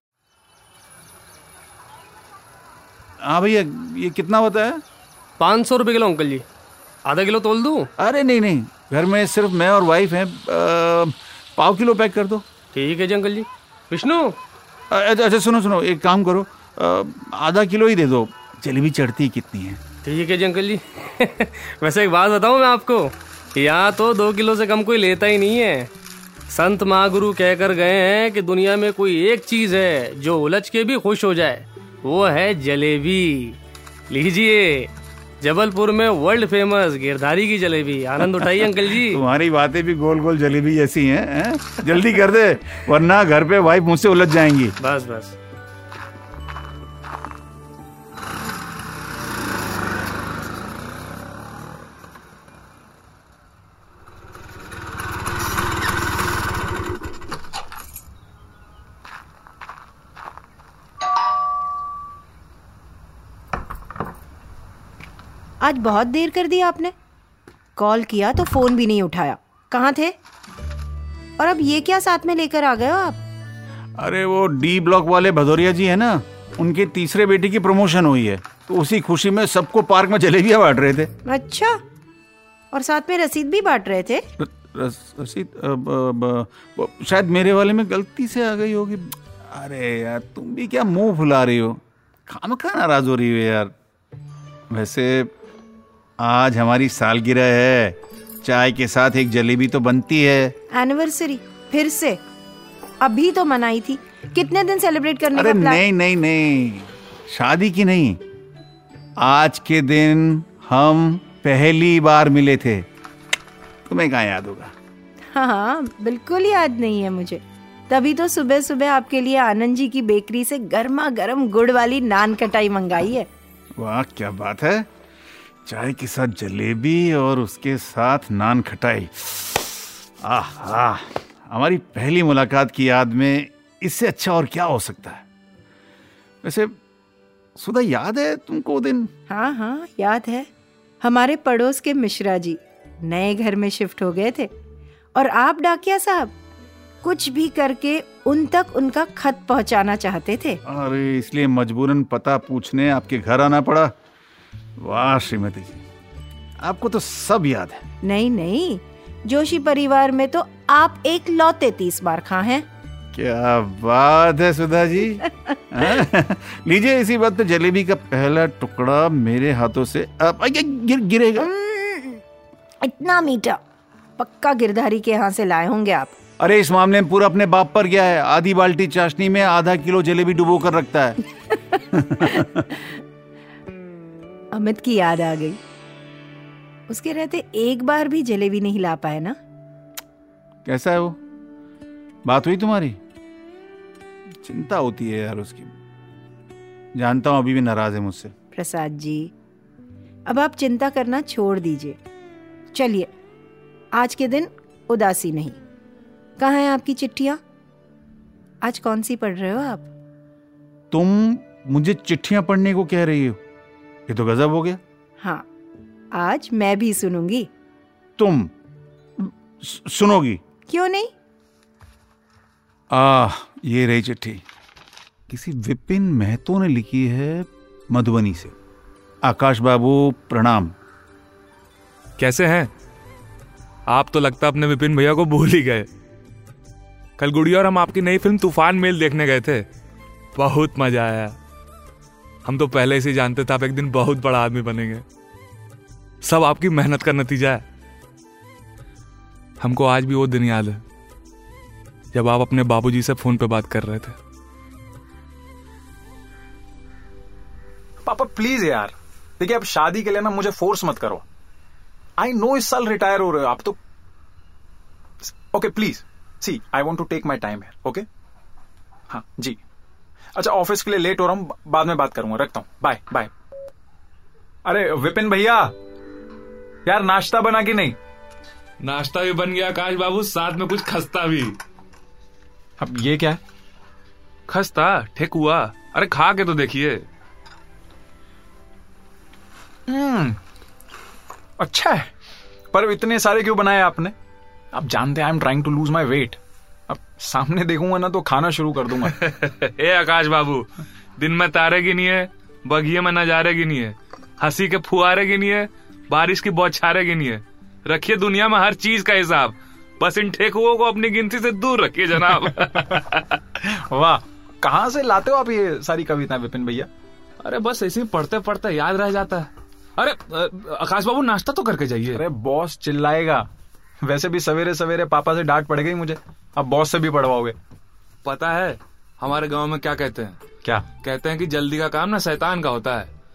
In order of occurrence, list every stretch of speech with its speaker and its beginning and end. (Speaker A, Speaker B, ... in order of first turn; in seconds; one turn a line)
Speaker A: 3.2-4.8
Speaker B: 5.4-6.4
Speaker B: 7.0-7.9
Speaker A: 8.0-12.4
Speaker B: 12.8-14.3
Speaker A: 14.9-19.8
Speaker B: 20.1-25.9
Speaker B: 26.5-33.6
Speaker B: 34.1-34.9
Speaker B: 35.4-39.1
Speaker A: 38.9-44.8
Speaker B: 44.8-45.4
Speaker C: 65.6-66.9
Speaker C: 67.8-70.2
Speaker C: 71.4-73.2
Speaker A: 74.0-81.1
Speaker C: 81.3-81.8
Speaker C: 82.7-84.3
Speaker A: 84.4-93.7
Speaker A: 94.7-95.3
Speaker A: 96.2-100.5
Speaker C: 100.7-102.2
Speaker C: 103.0-105.8
Speaker A: 105.3-108.2
Speaker A: 109.2-112.8
Speaker A: 113.9-114.7
Speaker C: 115.3-123.3
Speaker A: 123.8-124.9
Speaker A: 125.7-135.2
Speaker A: 136.4-136.8
Speaker A: 137.6-139.1
Speaker C: 139.3-140.5
Speaker C: 141.0-144.5
Speaker C: 145.2-146.3
Speaker C: 147.0-150.6
Speaker A: 150.7-153.9
Speaker A: 154.8-155.8
Speaker A: 156.6-157.8
Speaker C: 158.0-162.7
Speaker A: 163.1-171.5
Speaker C: 171.4-172.2
Speaker C: 172.8-173.6
Speaker C: 174.2-176.1
Speaker A: 176.4-181.2
Speaker C: 182.2-182.5
Speaker C: 184.5-185.6
Speaker C: 186.9-189.3
Speaker A: 190.7-191.2
Speaker A: 192.3-193.0
Speaker A: 194.4-195.7
Speaker A: 197.0-198.3
Speaker C: 198.5-199.3
Speaker C: 200.3-202.0
Speaker C: 202.7-203.1
Speaker C: 203.9-205.6
Speaker C: 206.4-207.4
Speaker C: 208.6-209.9
Speaker A: 210.9-213.4
Speaker A: 214.1-214.8
Speaker C: 215.2-215.5
Speaker C: 216.1-217.5
Speaker A: 218.2-218.5
Speaker A: 219.2-220.4
Speaker C: 220.7-221.1
Speaker A: 222.9-224.4
Speaker A: 225.3-228.6
Speaker A: 229.2-230.7
Speaker D: 232.2-232.7
Speaker D: 233.9-235.9
Speaker D: 237.2-239.7
Speaker D: 240.3-241.4
Speaker D: 242.4-245.0
Speaker D: 246.2-247.7
Speaker D: 249.6-250.8
Speaker D: 252.1-254.2
Speaker E: 258.0-261.2
Speaker E: 262.2-263.8
Speaker E: 265.2-268.1
Speaker E: 269.1-269.6
Speaker E: 270.4-273.3
Speaker E: 274.6-275.7
Speaker E: 276.9-278.0
Speaker D: 278.8-281.6
Speaker E: 282.8-283.4
Speaker D: 284.5-287.1
Speaker E: 289.9-290.4
Speaker E: 291.6-292.1
Speaker E: 292.7-294.1
Speaker E: 294.7-299.2
Speaker D: 299.0-313.4
Speaker E: 313.6-316.9
Speaker D: 317.4-322.2
Speaker E: 322.1-323.4
Speaker E: 324.0-327.6
Speaker D: 328.2-330.4
Speaker D: 331.0-333.1